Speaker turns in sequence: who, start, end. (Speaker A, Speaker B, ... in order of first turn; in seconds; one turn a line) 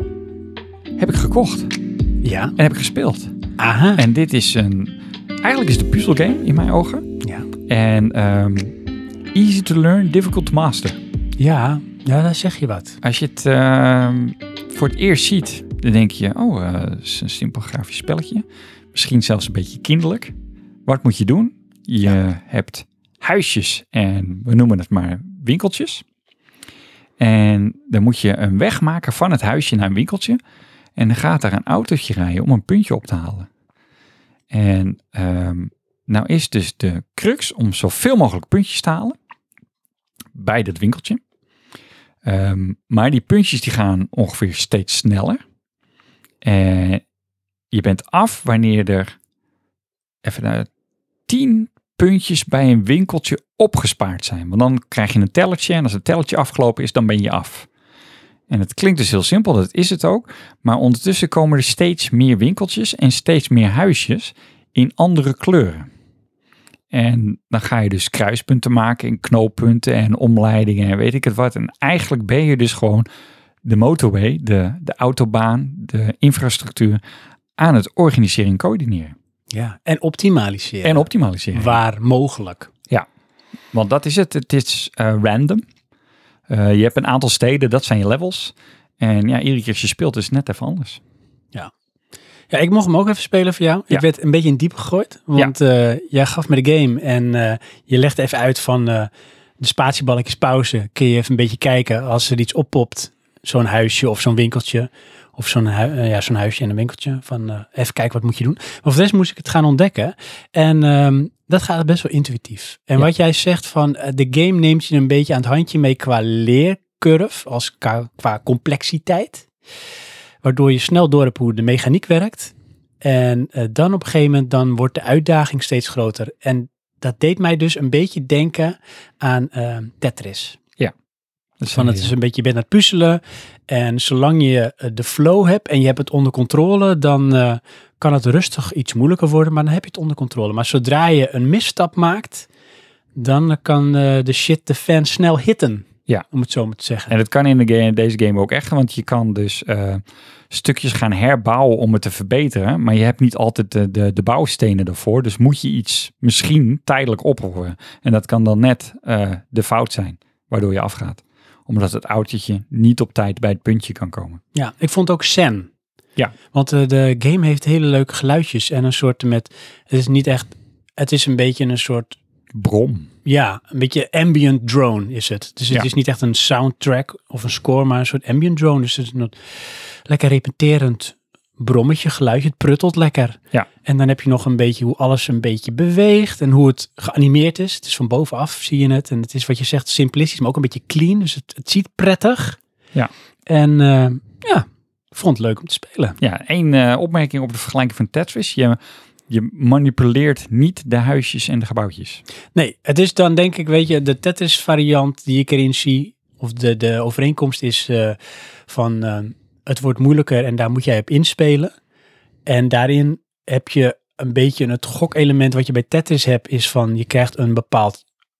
Speaker A: 1.0-1.7
Speaker B: 2.2-2.5
Speaker A: 2.6-3.3
Speaker B: 3.6-4.0
Speaker A: 4.0-7.0
Speaker B: 7.2-7.5
Speaker A: 7.7-8.7
Speaker A: 9.3-11.0
Speaker B: 11.4-13.0
Speaker A: 13.0-20.3
Speaker A: 20.9-26.0
Speaker A: 27.2-30.4
Speaker A: 30.9-33.5
Speaker A: 34.5-39.2
Speaker A: 40.3-41.2
Speaker A: 42.2-45.4
Speaker A: 46.4-47.0
Speaker A: 47.7-49.1
Speaker A: 50.2-50.7
Speaker A: 51.3-57.7
Speaker A: 58.5-65.9
Speaker A: 66.9-73.0
Speaker A: 73.6-77.0
Speaker A: 77.6-79.1
Speaker B: 79.5-82.7
Speaker A: 80.8-81.8
Speaker A: 83.7-85.6
Speaker A: 86.5-91.0
Speaker B: 92.5-119.5
Speaker B: 120.4-130.6
Speaker A: 131.6-132.1
Speaker B: 131.7-142.5
Speaker B: 143.1-147.2
Speaker A: 147.1-164.4
Speaker B: 164.5-165.7
Speaker B: 166.5-172.2
Speaker A: 172.5-173.1
Speaker B: 173.2-179.3
Speaker B: 180.1-192.6
Speaker B: 193.5-196.2
Speaker A: 196.2-198.8
Speaker A: 199.3-202.2
Speaker B: 202.5-211.7
Speaker B: 212.4-218.0